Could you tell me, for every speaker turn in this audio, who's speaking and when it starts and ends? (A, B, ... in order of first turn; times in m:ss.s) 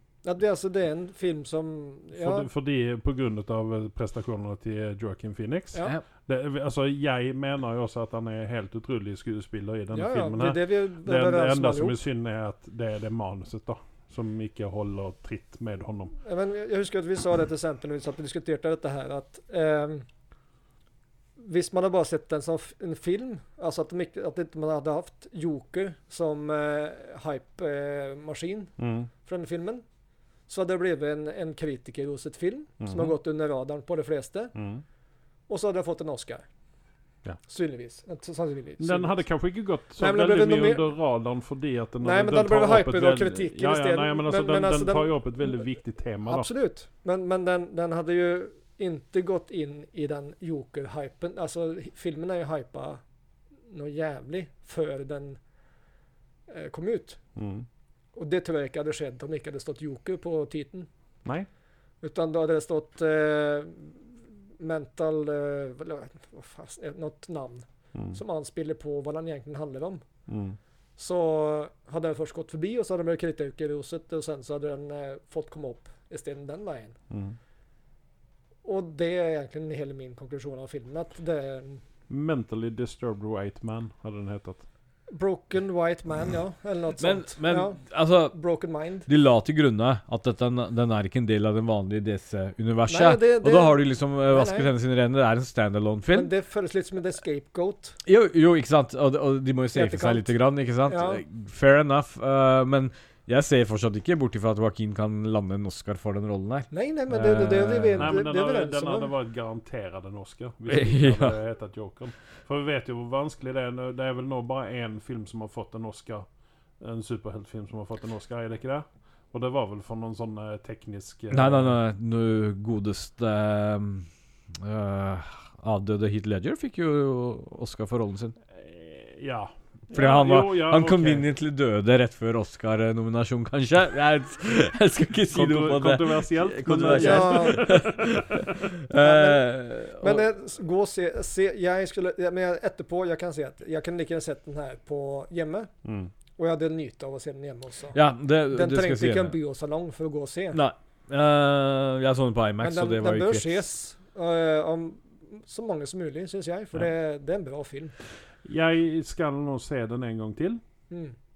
0:00.2-0:02.5 A
0:02.2-0:16.1 B
0:09.9-0:12.0 A
0:16.2-0:20.0 A
0:21.4-0:28.7 A
0:28.8-0:29.1 B
0:29.2-0:29.8 A
0:30.5-0:34.5 A
0:32.8-0:33.1 B
0:34.5-0:34.8 B
0:35.5-0:36.4 A
0:37.4-0:39.2 A
0:38.8-0:46.5 B
0:40.0-0:40.9 A
0:42.0-0:45.1 A
0:46.2-0:53.0 A
0:53.7-0:55.4 A
0:56.5-0:57.2 A
0:57.4-0:57.6 B
0:58.1-1:00.9 A
1:02.0-1:04.0 A
1:04.6-1:10.0 A
1:10.3-1:10.6 B
1:11.0-1:16.9 A
1:17.1-1:17.4 B
1:18.6-1:21.8 A
1:22.1-1:24.6 B
1:25.1-1:29.1 A
1:27.0-1:28.4 C
1:29.1-1:36.3 C
1:32.9-1:34.7 A
1:36.1-1:38.0 A
1:38.0-1:48.2 C
1:39.7-1:40.3 A
1:40.8-1:41.2 A
1:46.7-1:49.1 A
1:48.0-1:56.2 B
1:50.7-1:51.4 C
1:56.8-2:01.8 B
2:01.3-2:08.4 C
2:08.6-2:11.3 B
2:09.9-2:20.2 C
2:15.3-2:18.2 B
2:16.8-2:17.8 A
2:19.0-2:25.7 A
2:25.8-2:26.1 B
2:26.4-2:28.0 A
2:27.9-2:29.4 C
2:28.5-2:30.6 A
2:30.5-2:33.6 C
2:32.6-2:37.9 A
2:38.4-2:40.6 B